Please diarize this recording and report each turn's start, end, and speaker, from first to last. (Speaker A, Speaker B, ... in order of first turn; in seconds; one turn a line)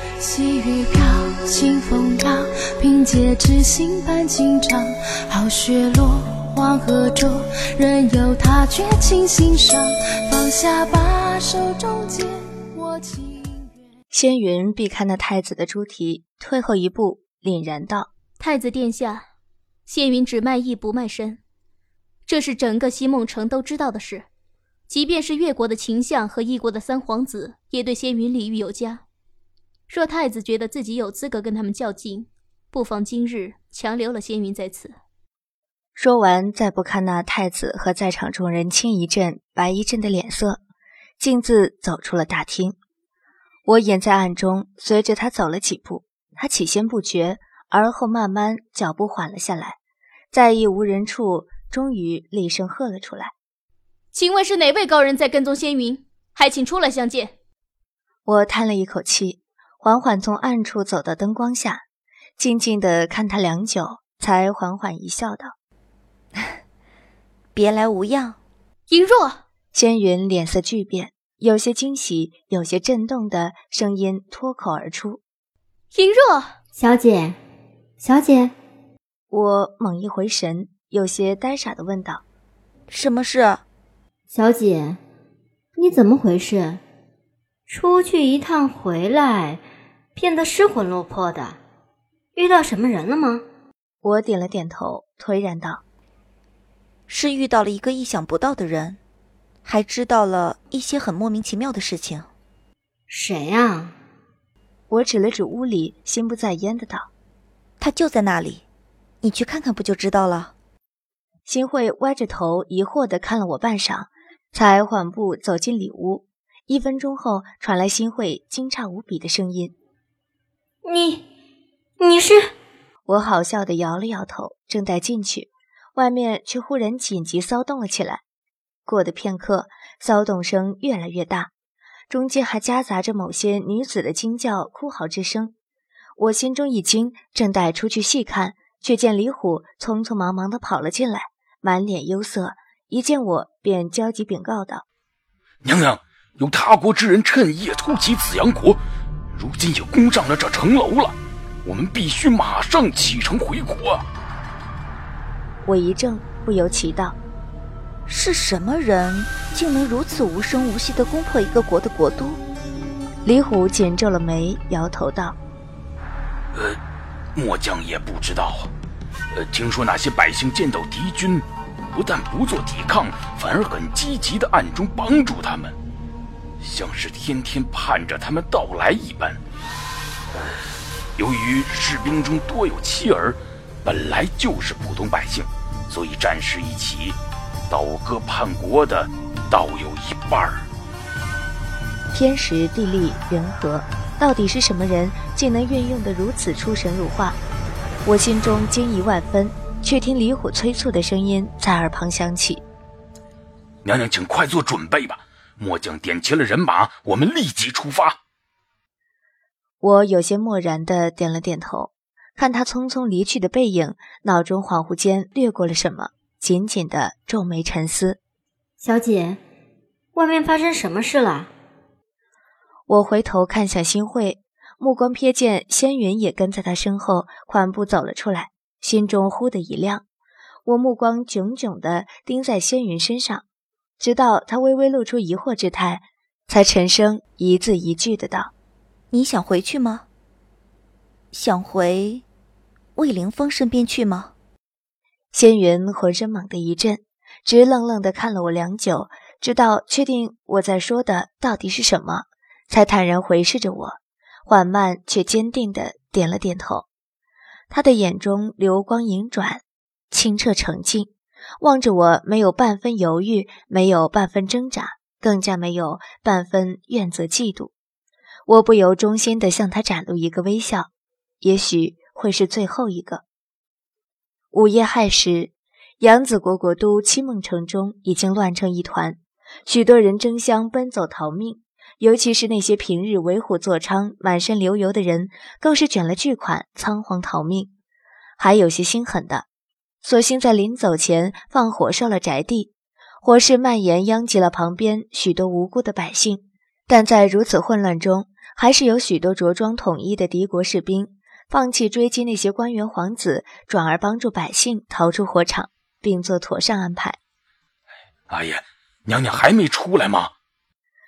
Speaker A: 0.2-13.7
Speaker B: 14.1-18.1
Speaker C: 18.4-19.3
Speaker C: 19.9-21.4
Speaker C: 22.3-24.3
Speaker C: 24.9-29.0
Speaker C: 29.9-35.0
Speaker B: 36.0-40.6
Speaker B: 41.2-42.8
Speaker B: 43.7-49.8
Speaker B: 50.3-53.3
Speaker C: 54.1-57.3
Speaker B: 58.3-61.8
Speaker B: 62.4-65.5
Speaker D: 67.5-68.4
Speaker C: 68.9-69.4
Speaker B: 69.7-75.2
Speaker C: 75.9-76.5
Speaker E: 76.8-77.4
Speaker E: 78.0-78.5
Speaker B: 79.3-82.2
Speaker D: 82.9-83.6
Speaker E: 84.3-85.0
Speaker E: 85.8-86.8
Speaker E: 87.7-89.6
Speaker E: 90.2-91.6
Speaker E: 92.4-93.4
Speaker B: 94.0-95.8
Speaker D: 97.1-99.0
Speaker D: 99.7-102.3
Speaker E: 103.1-103.9
Speaker B: 104.9-107.1
Speaker D: 107.8-108.6
Speaker D: 109.2-110.5
Speaker B: 111.5-119.7
Speaker E: 120.8-121.2
Speaker E: 122.0-122.5
Speaker B: 123.1-128.2
Speaker B: 128.9-131.5
Speaker B: 132.1-135.5
Speaker B: 136.2-144.8
Speaker F: 145.6-148.8
Speaker F: 149.3-154.0
Speaker B: 155.7-157.2
Speaker D: 158.1-162.4
Speaker B: 163.2-165.4
Speaker F: 167.4-168.7
Speaker F: 169.3-175.8
Speaker F: 176.6-179.4
Speaker F: 181.2-187.2
Speaker F: 187.7-190.6
Speaker B: 192.1-197.4
Speaker B: 198.1-202.6
Speaker F: 203.8-208.2
Speaker B: 209.8-218.2
Speaker E: 218.8-219.4
Speaker E: 220.2-221.5
Speaker B: 222.9-230.0
Speaker B: 230.7-233.4
Speaker B: 234.0-238.5
Speaker D: 239.1-240.1
Speaker D: 241.3-242.2
Speaker D: 243.0-244.3
Speaker B: 245.3-256.9
Speaker B: 257.7-267.7
Speaker B: 268.5-270.9
Speaker B: 271.4-273.2
Speaker B: 274.5-287.7
Speaker B: 288.4-289.5
Speaker B: 290.0-307.2
Speaker F: 308.3-310.3